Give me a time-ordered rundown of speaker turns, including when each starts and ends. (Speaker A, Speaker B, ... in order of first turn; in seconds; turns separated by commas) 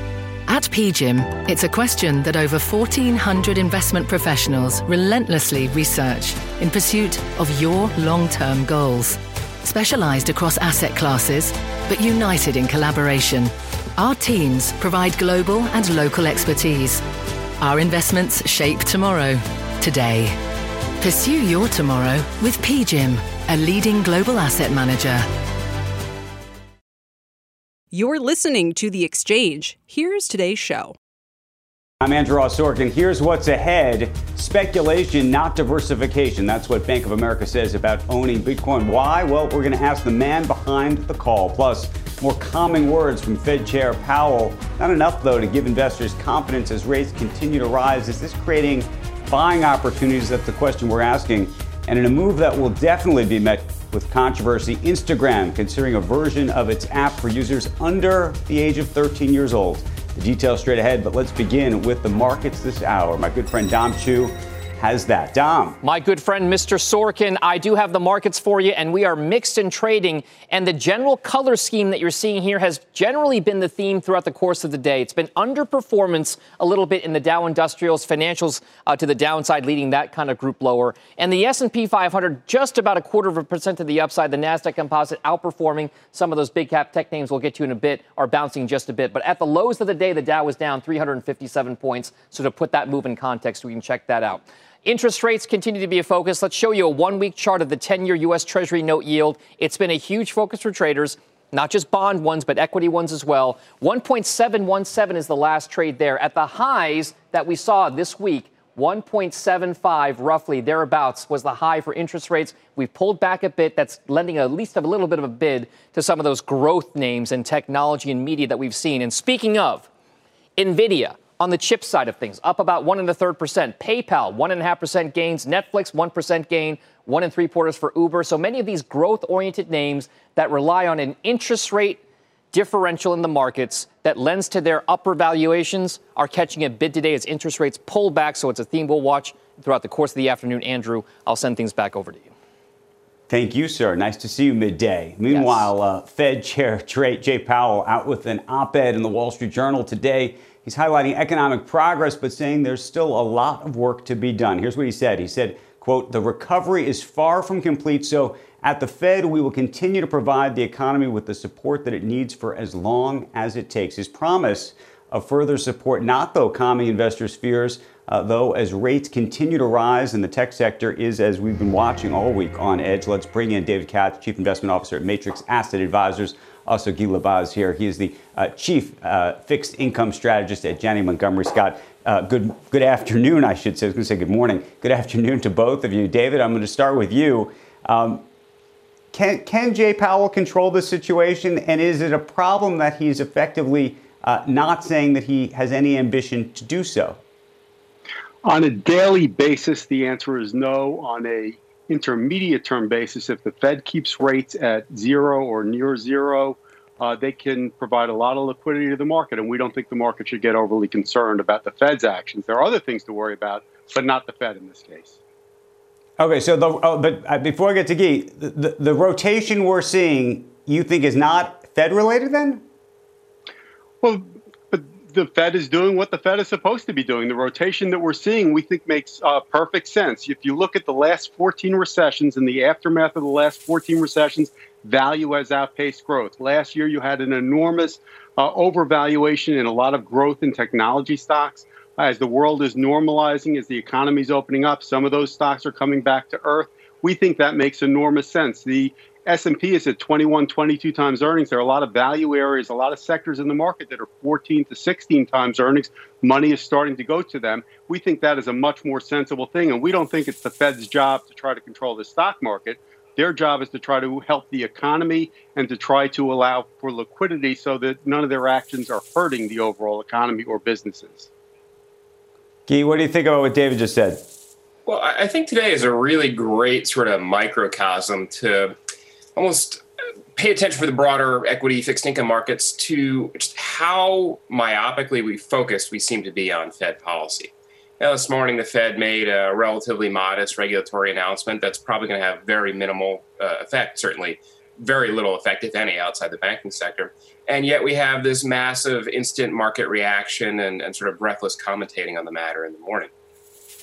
Speaker A: 0.5-17.1, Speaker A: 17.6-20.4, Speaker A: 21.0-25.3, Speaker B: 27.9-30.9, Speaker C: 32.0-65.8, Speaker D: 65.8-119.9, Speaker D: 120.6-132.0, Speaker D: 132.5-142.3, Speaker C: 143.3-188.2, Speaker D: 145.3-145.7, Speaker C: 189.1-197.2, Speaker E: 198.4-215.2, Speaker C: 216.2-222.6, Speaker E: 224.0-271.3, Speaker C: 272.7-274.2, Speaker F: 274.9-278.8, Speaker F: 279.4-279.8, Speaker F: 280.4-303.1